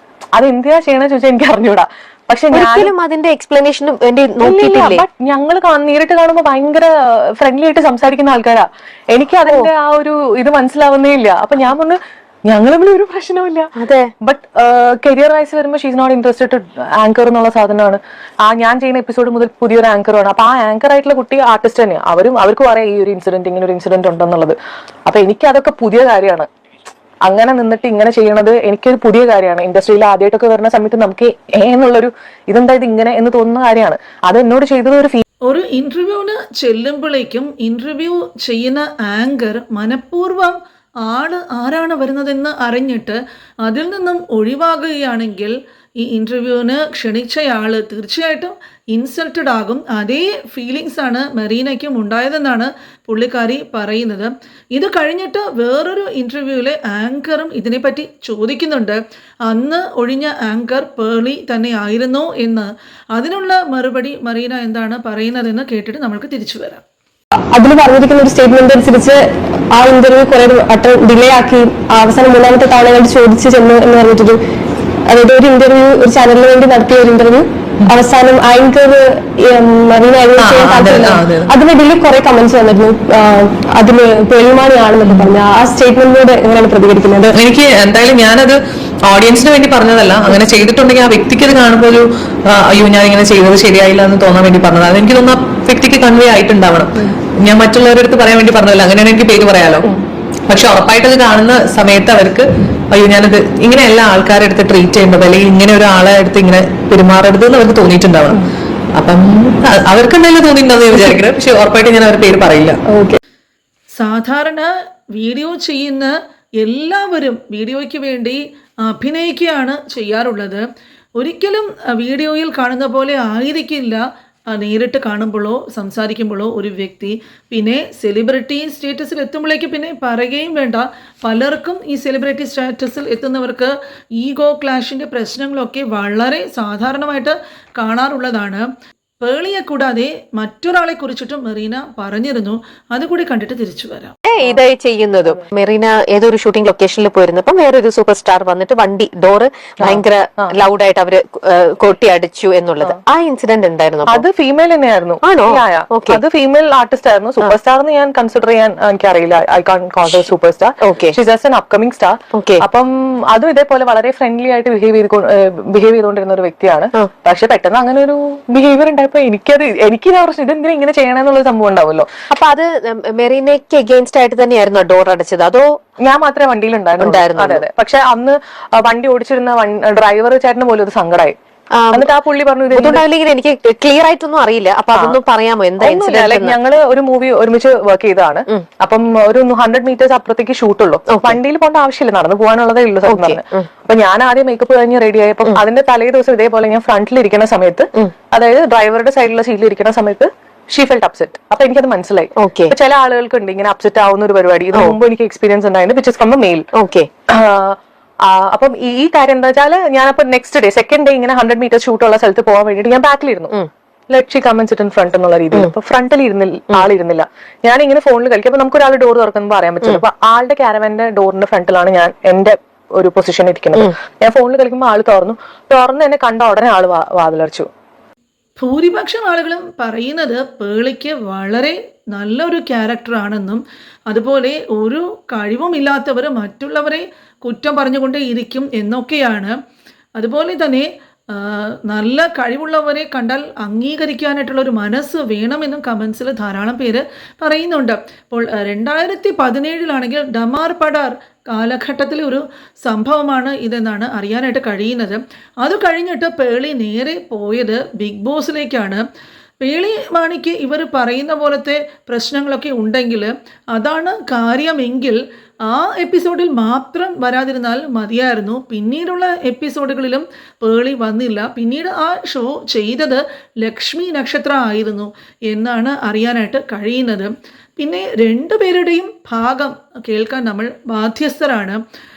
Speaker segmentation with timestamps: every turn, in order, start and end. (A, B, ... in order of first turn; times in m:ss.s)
0:00.4-0:02.9 A
0:02.5-0:05.0 B
0:04.4-0:26.5 A
0:13.8-0:14.1 B
0:27.2-0:35.2 A
0:35.4-1:06.8 C
1:07.5-1:09.2 D
1:09.7-1:14.4 D
1:15.1-1:27.4 D
1:20.4-1:21.5 E
1:25.0-1:25.3 E
1:27.3-1:39.9 E
1:40.5-1:48.4 E
1:49.0-1:52.8 E
1:52.9-1:53.2 D
1:54.0-2:00.6 C
2:01.2-2:18.7 C
2:19.2-2:24.2 C
2:24.2-2:34.2 B
2:29.8-2:30.5 A
2:34.1-2:52.1 A
2:35.2-2:36.2 B
2:40.8-2:41.2 B
2:42.3-2:42.6 B
2:52.3-2:55.8 B
2:56.0-3:01.3 A
2:57.0-2:57.6 B
3:01.7-3:02.1 B
3:01.9-3:03.0 A
3:02.7-3:06.6 B
3:04.9-3:05.2 A
3:05.8-3:26.6 A
3:11.1-3:11.4 B
3:13.1-3:13.7 B
3:22.4-3:22.7 B
3:26.7-3:27.1 B
3:27.3-3:33.5 A
3:34.1-3:47.7 A
3:48.6-3:59.5 C
4:00.2-4:19.0 C
4:19.6-4:41.8 C